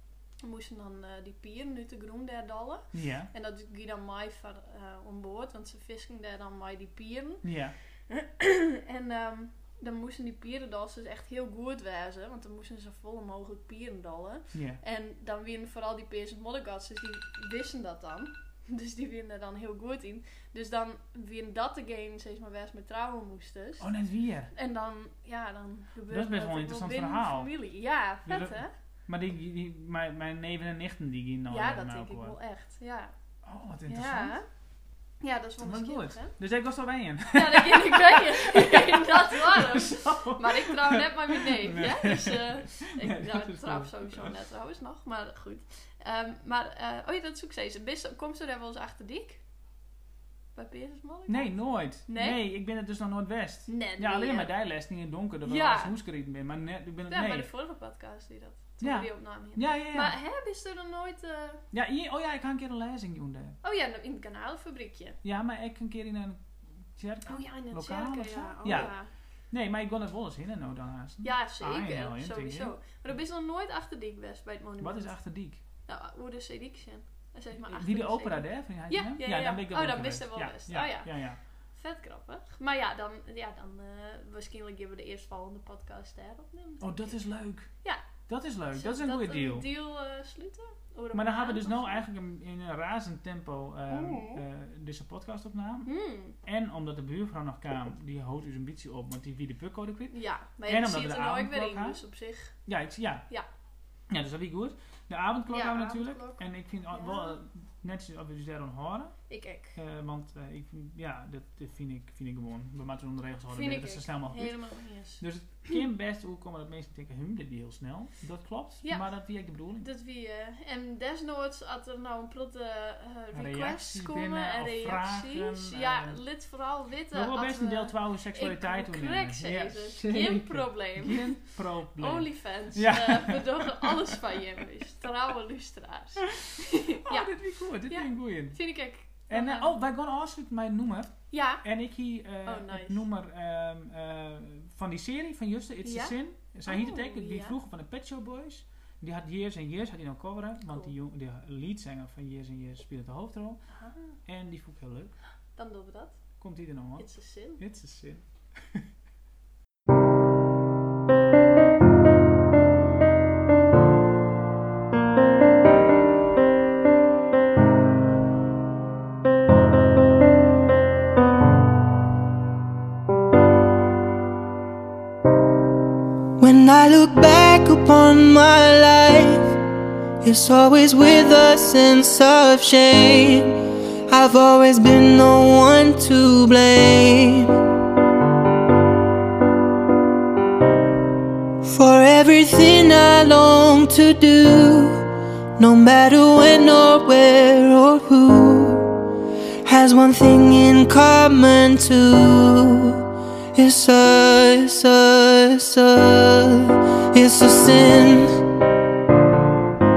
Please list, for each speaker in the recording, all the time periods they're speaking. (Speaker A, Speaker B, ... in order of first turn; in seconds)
Speaker A: 0.4-7.5, 8.1-23.9, 24.5-28.7, 31.5-33.1, 33.9-34.5, 35.2-36.4, 37.3-49.4, 50.5-52.4, 53.7-54.5, 55.4-56.0, 57.1-61.6, 63.6-65.2, 67.3-69.1, 71.2-75.2, 75.9-81.1, 81.7-87.2, 88.7-92.0, 93.9-94.4, 95.8-96.4, 100.1-102.5, 105.5-107.4, 109.3-109.8, 113.5-115.8, 119.8-137.3, 137.9-139.7, 141.3-141.6, 142.4-143.0, 145.8-147.6, 153.7-154.2, 155.6-156.2, 157.0-157.6
Speaker B: 2.9-3.3, 7.4-7.8, 14.5-14.8, 23.8-24.5, 26.1-27.5, 28.3-32.4, 33.4-34.4, 35.6-44.3, 51.3-57.5, 58.8-60.1, 61.7-63.6, 65.2-69.0, 69.5-72.7, 74.8-75.6, 77.7-81.4, 86.8-87.7, 88.3-89.7, 91.1-95.9, 96.4-102.0, 102.7-103.2, 104.1-109.2, 109.8-114.6, 115.2-119.9, 123.3-126.2, 127.1-134.4, 136.4-138.6, 139.3-153.6, 154.2-155.1, 156.4-158.9
Speaker C: 176.4-179.6, 180.2-187.6, 191.7-195.0, 195.6-198.9, 199.7-203.0, 203.6-208.3